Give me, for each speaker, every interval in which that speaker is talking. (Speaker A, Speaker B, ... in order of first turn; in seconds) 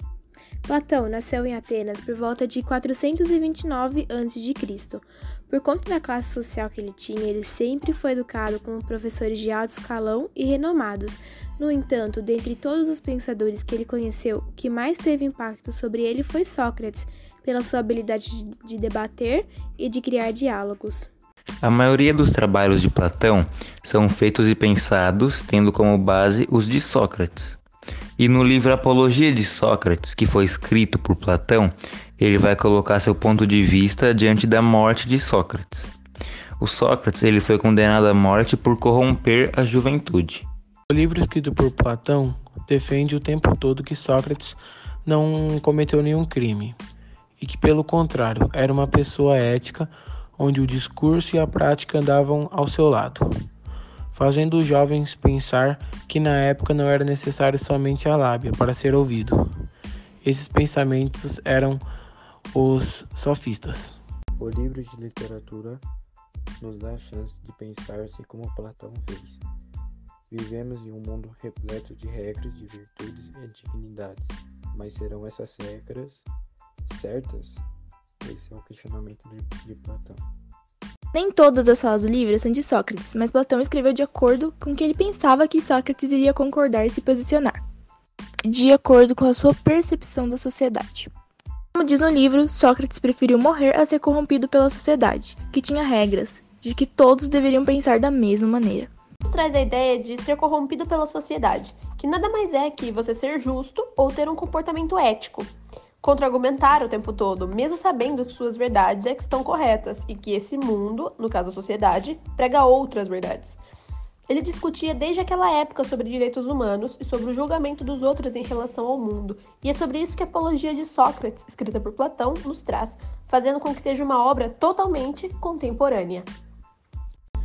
Speaker A: 0.6-21.1
Speaker B: 21.6-27.6, 28.2-35.9, 36.6-40.5
Speaker C: 40.9-46.8, 47.4-53.5, 54.1-59.5, 60.2-61.8, 62.5-64.0
Speaker D: 64.3-65.8, 66.6-69.4, 70.3-76.3, 76.8-77.6, 78.2-80.2
Speaker E: 81.1-87.6, 88.4-91.1, 91.7-98.9
Speaker F: 99.3-113.6, 114.3-126.3